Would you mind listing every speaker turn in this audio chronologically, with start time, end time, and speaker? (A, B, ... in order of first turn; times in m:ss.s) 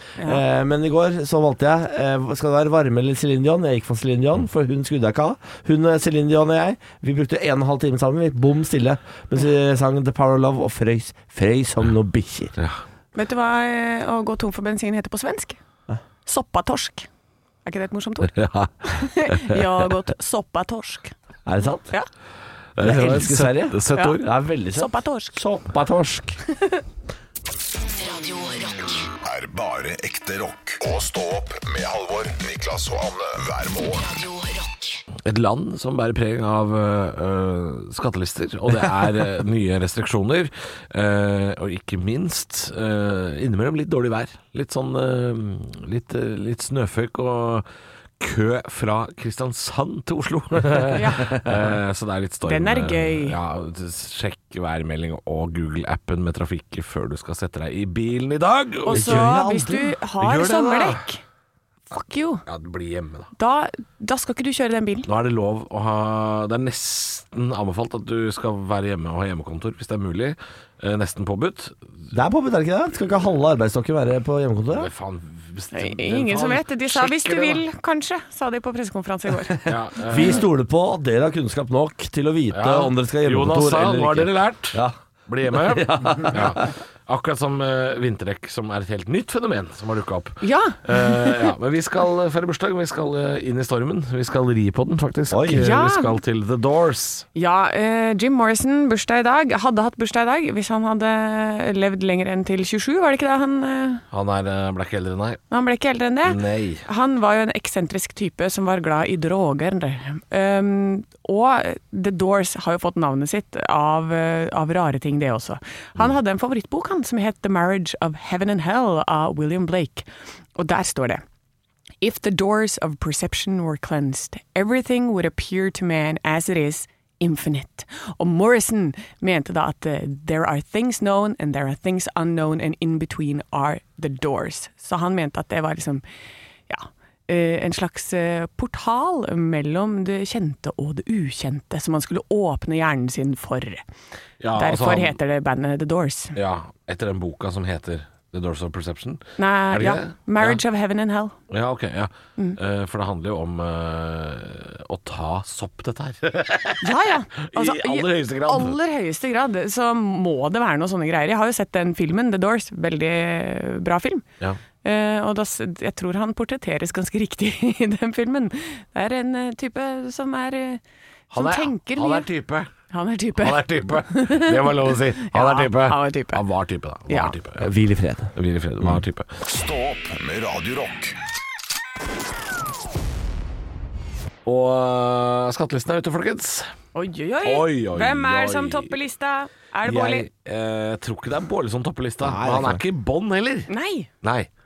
0:00.2-0:00.4 A
0:00.2-0:12.6 B
0:13.2-0:15.6 A
0:16.3-0:17.1 A
0:17.6-0:21.2 A
0:21.5-0:21.9 B
0:22.8-0:24.3 C
0:22.8-0:26.4 B
0:23.9-0:24.2 A
0:24.8-0:25.4 A
0:27.8-0:29.1 D
0:29.2-0:34.1 E
0:34.0-0:35.0 D
0:35.2-0:47.7 C
0:48.2-0:59.3 C
0:50.9-0:51.4 A
0:51.2-0:51.5 B
0:52.4-0:53.4 A
0:58.9-1:01.2 A
0:58.9-1:00.0 B
1:00.2-1:01.1 C
1:01.9-1:02.4 A
1:02.5-1:03.3 C
1:03.4-1:05.1 A
1:05.1-1:11.8 C
1:12.1-1:14.9 B
1:14.7-1:17.6 C
1:15.7-1:19.6 A
1:19.6-1:26.7 B
1:19.7-1:20.5 C
1:22.5-1:37.3 C
1:30.4-1:31.5 A
1:35.3-1:35.6 B
1:35.6-1:36.1 A
1:37.4-1:44.0 A
1:44.1-1:45.4 C
1:45.5-2:01.2 A
1:46.2-1:46.8 C
2:02.0-2:16.0 A
2:16.7-2:23.8 A
2:24.4-2:25.2 C
2:24.6-2:26.4 A
2:26.4-2:30.6 C
2:29.4-2:31.4 A
2:31.5-2:38.8 C
2:36.8-2:44.2 A
2:44.8-2:50.8 A
2:51.3-2:52.7 C
2:51.3-2:52.3 A
2:52.9-2:54.5 A
2:53.4-2:57.7 C
2:55.2-2:56.4 A
2:57.1-2:57.4 A
2:57.6-2:59.0 B
2:58.4-2:59.4 C
2:59.4-3:01.2 E
3:04.4-3:06.7 C
3:06.9-3:10.3 A
3:07.4-3:09.0 C
3:09.8-3:13.7 C
3:12.2-3:12.8 B
3:13.7-3:14.1 A
3:14.2-3:14.5 C